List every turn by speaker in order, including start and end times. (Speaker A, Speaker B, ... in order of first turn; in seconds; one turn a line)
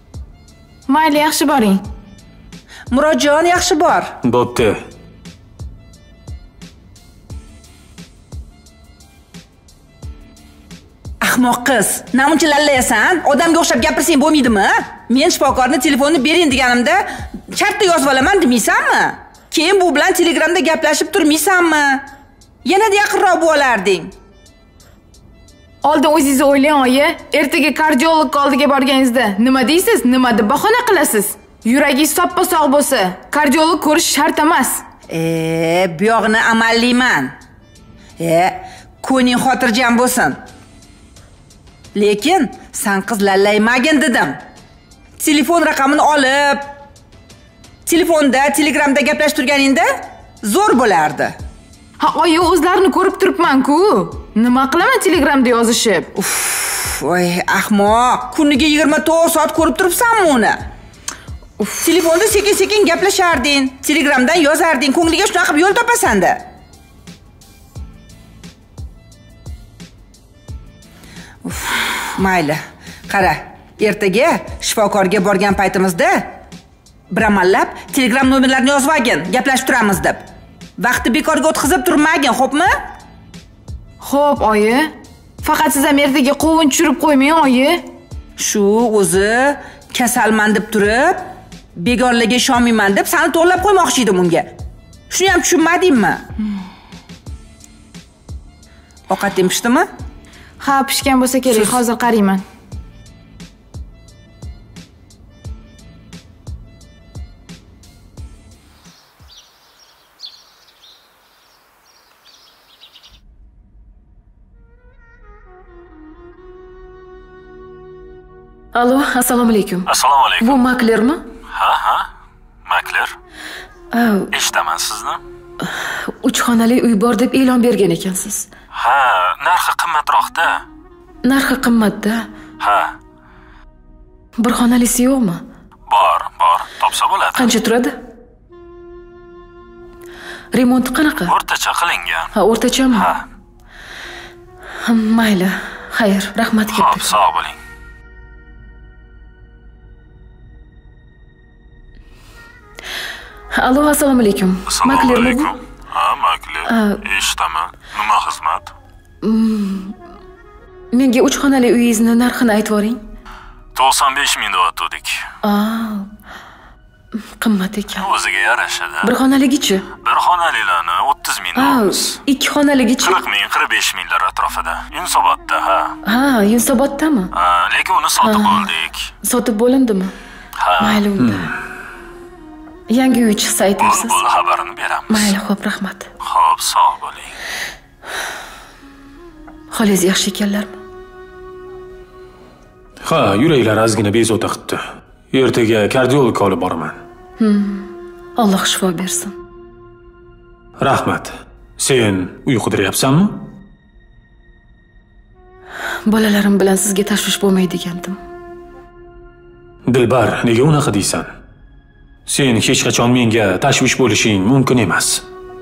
Speaker A: 0.9-1.8
Speaker B: 2.9-4.1
Speaker C: 4.2-4.8
Speaker B: 11.2-22.1
Speaker B: 22.6-24.1
Speaker A: 25.8-34.8
Speaker B: 35.1-37.3
Speaker B: 38.2-40.4
Speaker B: 41.9-44.4
Speaker B: 45.2-46.7
Speaker B: 47.9-51.4
Speaker A: 52.0-56.1
Speaker B: 56.1-60.6
Speaker B: 61.8-66.4
Speaker B: 71.4-76.3
Speaker B: 77.1-80.2
Speaker B: 80.8-82.8
Speaker A: 84.0-84.9
Speaker A: 85.4-87.8
Speaker B: 88.4-94.5
Speaker B: 95.1-96.2
Speaker B: 99.1-99.9
Speaker A: 100.6-102.4
Speaker D: 118.8-119.9
Speaker E: 119.9-120.6
Speaker D: 120.4-121.2
Speaker E: 121.5-122.1
Speaker E: 122.7-123.2
Speaker D: 123.9-124.3
Speaker E: 124.3-125.2
Speaker D: 125.6-128.5
Speaker E: 128.7-130.6
Speaker D: 131.2-132.2
Speaker E: 132.6-132.9
Speaker D: 134.4-135.4
Speaker E: 135.9-137.6
Speaker D: 137.4-138.0
Speaker D: 140.5-141.3
Speaker E: 141.2-142.3
Speaker D: 142.3-143.1
Speaker E: 142.9-143.2
Speaker D: 144.9-147.2
Speaker E: 146.7-147.6
Speaker D: 153.5-155.5
Speaker E: 154.7-158.7
Speaker D: 156.7-157.0
Speaker D: 159.2-159.9
Speaker D: 160.9-163.0
Speaker E: 163.8-165.2
Speaker D: 165.4-166.1
Speaker D: 167.4-168.1
Speaker E: 167.9-169.1
Speaker D: 169.0-169.8
Speaker E: 170.0-172.2
Speaker D: 171.6-173.2
Speaker E: 173.0-176.0
Speaker D: 176.1-177.3
Speaker E: 177.3-179.0
Speaker D: 178.2-178.7
Speaker D: 179.2-180.1
Speaker E: 180.6-181.1
Speaker D: 180.8-181.5
Speaker C: 181.2-181.6
Speaker D: 182.9-184.2
Speaker E: 183.8-185.3
Speaker D: 185.1-186.1
Speaker E: 186.2-187.3
Speaker D: 189.7-190.7
Speaker C: 193.0-197.0
Speaker D: 197.4-199.3
Speaker C: 200.8-203.5
Speaker D: 206.1-208.2
Speaker C: 209.9-211.3
Speaker C: 212.3-215.2